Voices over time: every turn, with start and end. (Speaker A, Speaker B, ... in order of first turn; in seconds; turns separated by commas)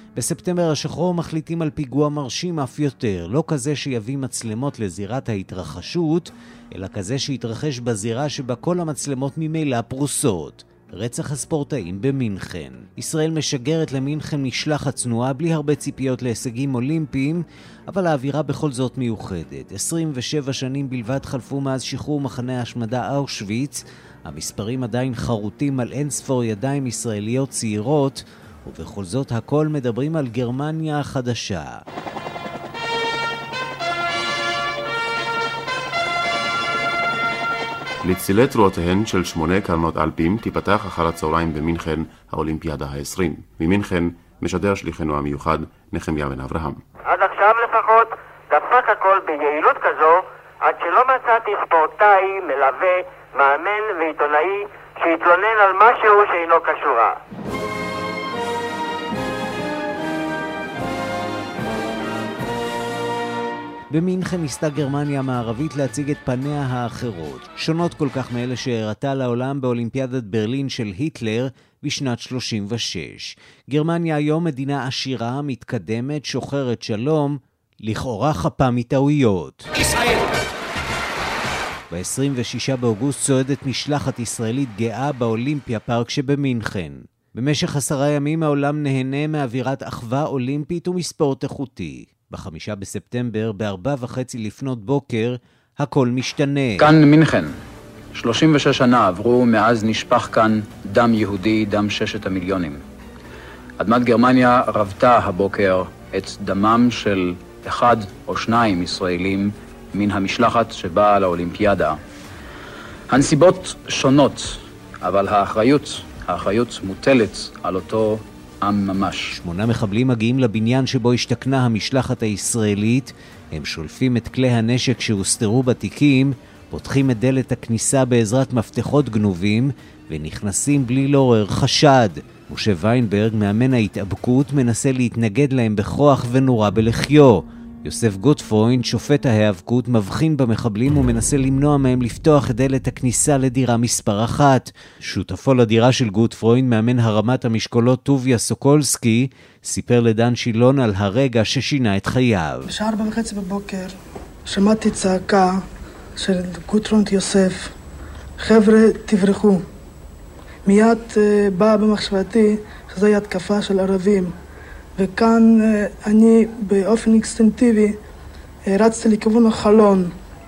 Speaker A: 0.2-31.7, Speaker B: 38.0-46.8, Speaker C: 47.0-57.2, Speaker A: 63.9-79.7, Speaker A: 81.9-96.9, Speaker D: 96.8-97.5, Speaker D: 98.2-102.8, Speaker D: 103.8-112.0, Speaker D: 113.1-119.3, Speaker A: 119.3-152.7, Speaker E: 152.7-153.9, Speaker E: 154.5-155.6, Speaker E: 156.2-157.7, Speaker E: 158.4-159.6, Speaker E: 160.7-164.3, Speaker E: 165.0-168.0, Speaker E: 168.7-170.1